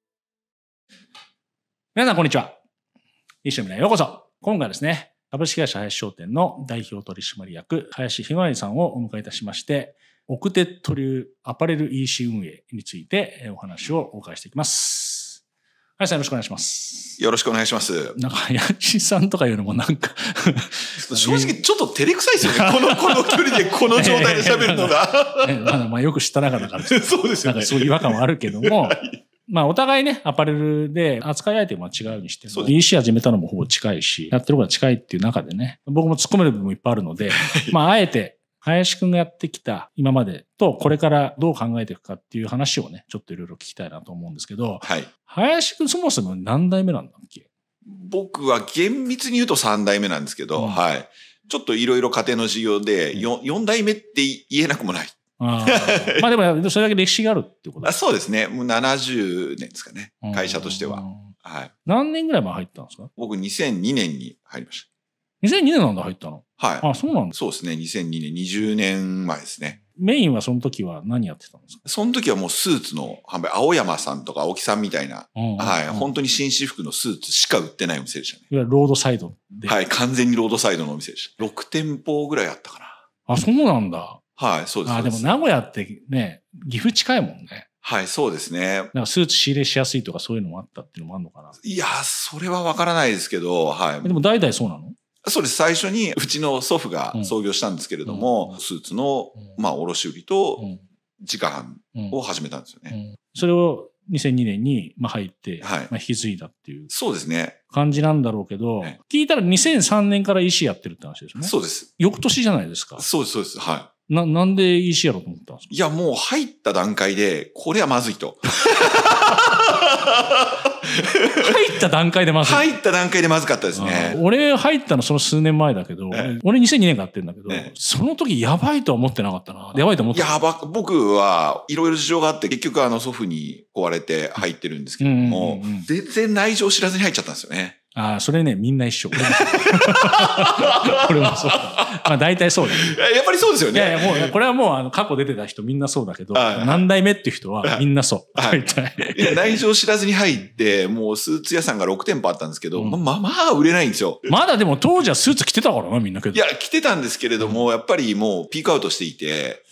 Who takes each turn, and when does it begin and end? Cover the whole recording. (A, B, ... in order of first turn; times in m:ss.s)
0:02.0-0:02.6 A
0:03.4-0:15.4 A
0:16.0-0:17.2 A
0:17.2-0:18.2 B
0:18.2-0:21.6 A
0:21.0-0:25.8 B
0:22.4-0:47.5 A
0:26.9-0:29.2 B
0:32.5-0:32.8 B
0:37.3-0:37.8 B
0:44.8-0:45.1 B
0:47.9-0:56.3 B
0:55.4-0:58.0 A
0:57.8-1:01.7 B
1:00.2-1:01.3 A
1:01.9-1:03.1 A
1:03.2-1:04.9 B
1:05.4-1:07.4 A
1:06.6-1:09.8 B
1:10.0-1:11.8 A
1:11.8-1:18.4 B
1:15.4-1:16.1 A
1:18.5-1:19.8 A
1:19.6-1:23.0 B
1:23.3-1:24.2 A
1:24.4-1:25.4 B
1:24.8-1:27.7 A
1:27.8-1:28.9 B
1:28.9-1:31.6 A
1:31.6-1:34.2 B
1:34.0-1:35.0 A
1:35.2-1:40.7 B
1:38.0-1:38.6 A
1:41.2-1:43.0 B
1:42.9-1:46.9 A
1:45.6-1:45.9 B
1:46.9-1:47.6 B
1:47.7-1:53.1 A
1:51.4-1:51.9 B
1:53.0-1:53.9 B
1:54.1-1:55.7 A
1:55.7-2:01.5 B
2:01.4-2:02.7 A
2:02.4-2:04.2 B
2:03.7-2:10.4 A
2:10.1-2:17.8 B
2:15.0-2:15.9 A
2:18.0-2:23.0 A
2:19.2-2:21.8 B
2:22.7-2:24.3 B
2:23.7-2:29.6 A
2:26.3-2:26.9 B
2:28.4-2:34.3 B
2:32.8-2:33.0 A
2:34.3-2:36.4 A
2:36.3-2:39.6 B
2:37.4-2:37.7 A